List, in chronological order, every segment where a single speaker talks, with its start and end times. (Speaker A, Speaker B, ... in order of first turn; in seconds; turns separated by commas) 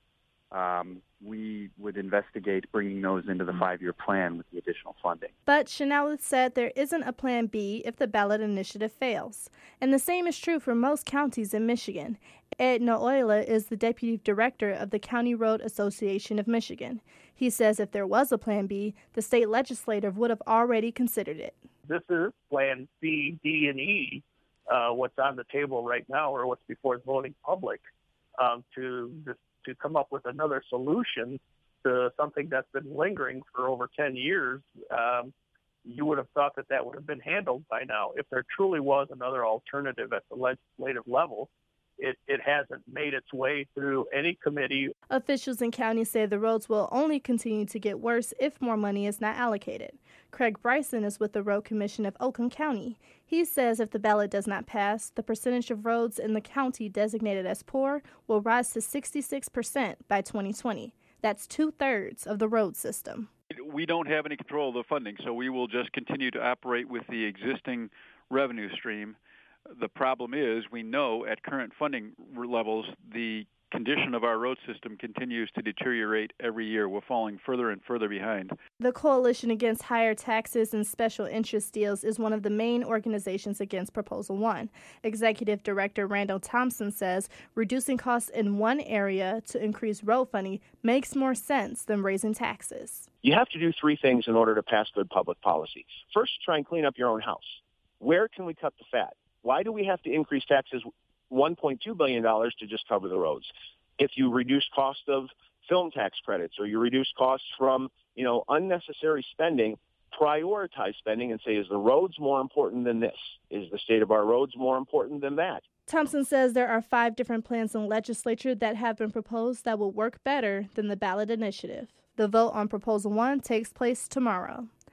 Speaker A: 0.5-5.3, Speaker B: 5.5-21.6, Speaker C: 21.9-27.9, Speaker C: 28.4-35.3, Speaker C: 35.9-44.9, Speaker B: 45.1-63.3, Speaker D: 63.5-69.2, Speaker D: 69.7-78.6, Speaker B: 78.8-93.1, Speaker E: 93.2-115.6, Speaker B: 115.9-124.7